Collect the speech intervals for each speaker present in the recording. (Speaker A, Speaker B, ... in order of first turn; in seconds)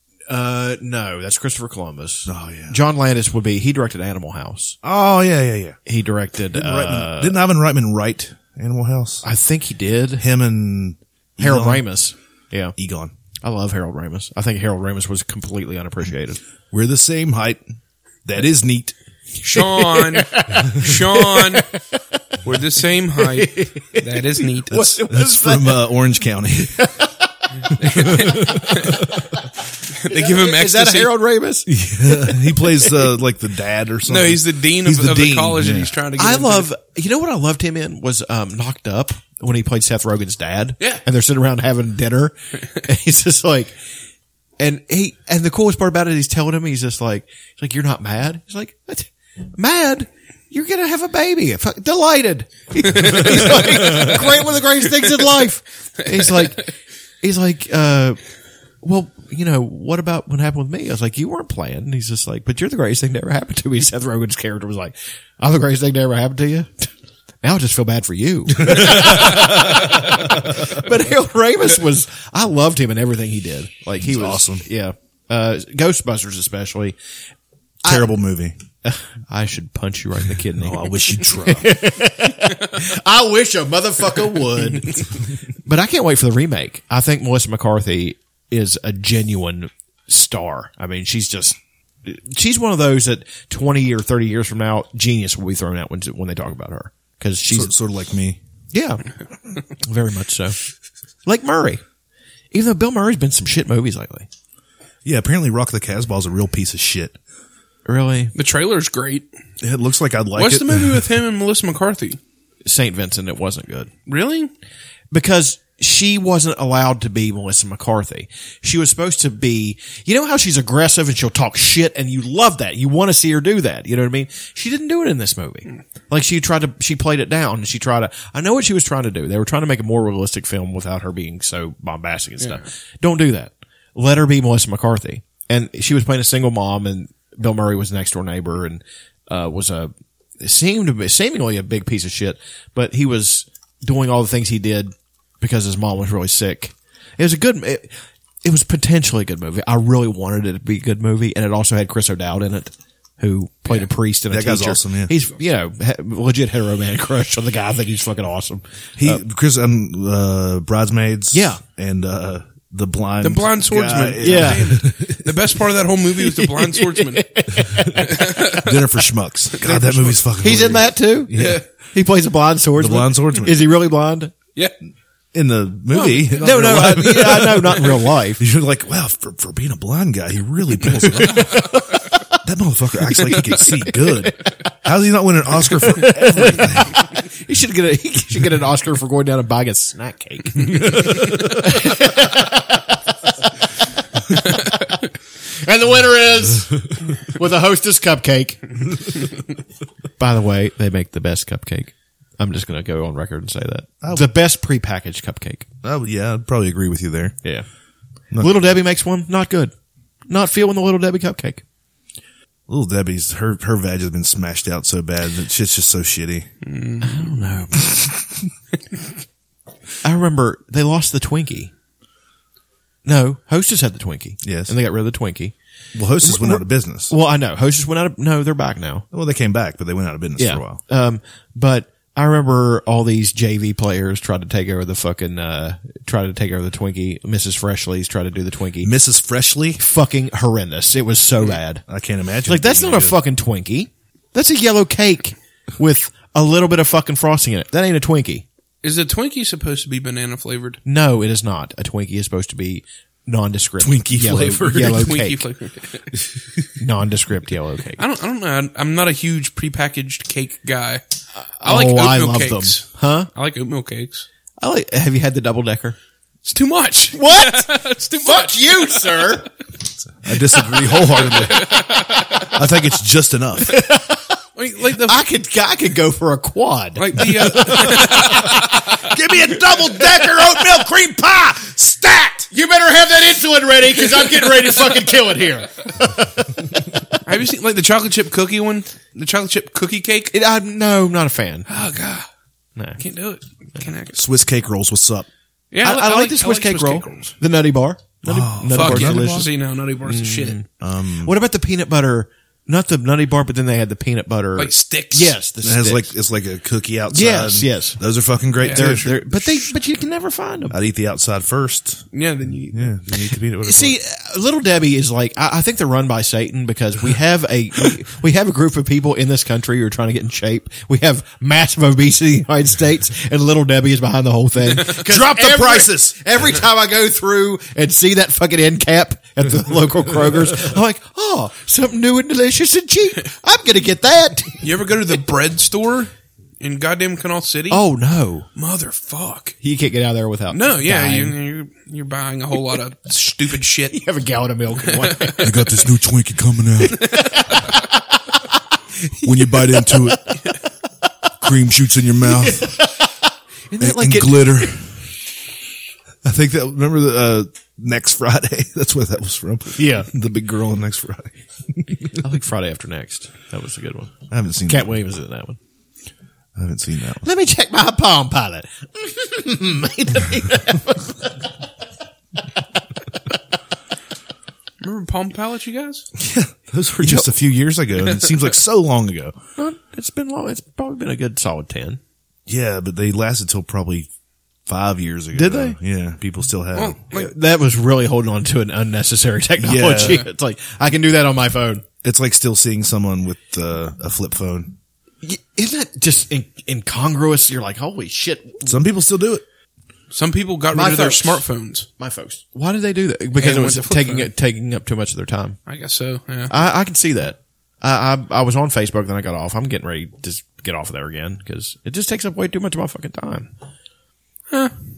Speaker A: 0.3-4.8, 5.9-7.4, 9.2-10.2, 11.4-12.7, 13.4-16.4, 19.6-22.0, 23.2-25.9, 26.6-29.4, 30.1-32.8, 36.2-43.8, 44.6-58.2, 58.8-66.9, 67.4-77.0, 77.8-78.1, 78.8-85.1, 85.7-97.7, 98.7-99.1, 99.7-100.6, 101.2-101.8, 102.5-104.3, 107.9-108.3, 112.7-113.9, 115.1-159.2, 161.3-161.6, 164.2-164.8, 166.2-168.3, 170.4-171.4, 171.9-174.3, 176.0-178.4, 181.0-182.3, 185.8-193.5, 194.3-195.0, 195.6-198.7, 200.2-205.7, 208.4-209.7, 210.3-211.6, 217.0-217.9, 220.0-221.7, 223.1-225.6, 226.2-229.1, 230.4-238.9, 239.8-241.8, 242.5-248.4, 250.8-255.4, 256.8-258.0, 261.4-263.3, 264.6-266.0, 267.1-269.5, 273.6-274.4, 274.9-278.7, 282.5-287.2, 290.3-291.7, 295.8-299.5, 300.1-300.7, 301.2-306.1, 307.1-308.0, 308.7-310.8, 313.6-334.7, 337.7-338.5, 339.6-341.4, 343.9-345.6, 346.9-350.4, 352.2-354.7, 359.8-360.1, 362.2-364.1, 364.7-365.6, 367.2-371.4, 377.0-377.3, 379.6-382.0, 385.3-385.8, 387.1-391.8, 395.2-398.8, 400.7-401.4, 402.0-405.6, 406.5-413.5
Speaker B: 2.3-2.8, 4.8-5.8, 6.5-9.3, 10.2-11.9, 12.8-13.1, 16.7-17.6, 18.2-18.9, 24.7-26.9, 27.8-29.1, 31.7-36.0, 68.6-70.1, 74.0-74.7, 77.8-78.6, 80.6-81.8, 97.5-98.4, 105.0-107.2, 109.6-111.1, 154.3-155.1, 159.0-165.4, 167.7-171.7, 172.8-173.6, 175.3-181.8, 182.4-187.0, 191.1-191.4, 204.0-204.3, 205.8-207.4, 212.7-216.5, 218.0-218.3, 224.4-224.7, 225.9-227.1, 229.1-230.8, 238.8-239.8, 241.8-243.2, 253.8-255.2, 270.2-271.9, 272.5-273.7, 277.2-282.5, 294.1-295.3, 298.2-299.5, 300.8-301.4, 305.6-309.1, 310.7-312.2, 312.7-314.0, 324.9-326.2, 330.1-330.4, 345.4-347.0, 349.2-350.2, 351.4-352.8, 353.8-355.1, 356.2-362.2, 364.3-365.0, 366.6-367.3, 376.2-379.4, 382.5-384.1, 384.7-387.0, 389.6-390.3, 392.0-394.8, 398.6-399.4
Speaker C: 19.4-21.7, 22.4-24.8, 28.1-29.0, 29.9-31.1, 34.1-36.7, 53.5-54.1, 56.1-56.5, 108.3-109.3, 110.4-112.2, 114.1-114.5, 132.4-132.7, 163.2-168.7, 169.6-170.2, 171.3-171.6, 216.7-217.3, 248.8-250.8, 254.8-256.2, 258.0-261.0, 261.6-264.3, 266.4-269.3, 270.7-272.5, 274.6-275.2, 277.0-278.6, 287.2-290.4, 291.7-292.3, 293.0-294.2, 295.7-297.4, 298.7-300.6, 304.6-305.4, 308.6-309.7, 312.1-313.0, 334.6-337.8, 338.6-339.6, 340.5-344.0, 344.9-345.3, 347.0-347.3, 374.8-376.1, 386.8-387.3, 400.1-401.9, 403.4-404.3, 405.7-406.5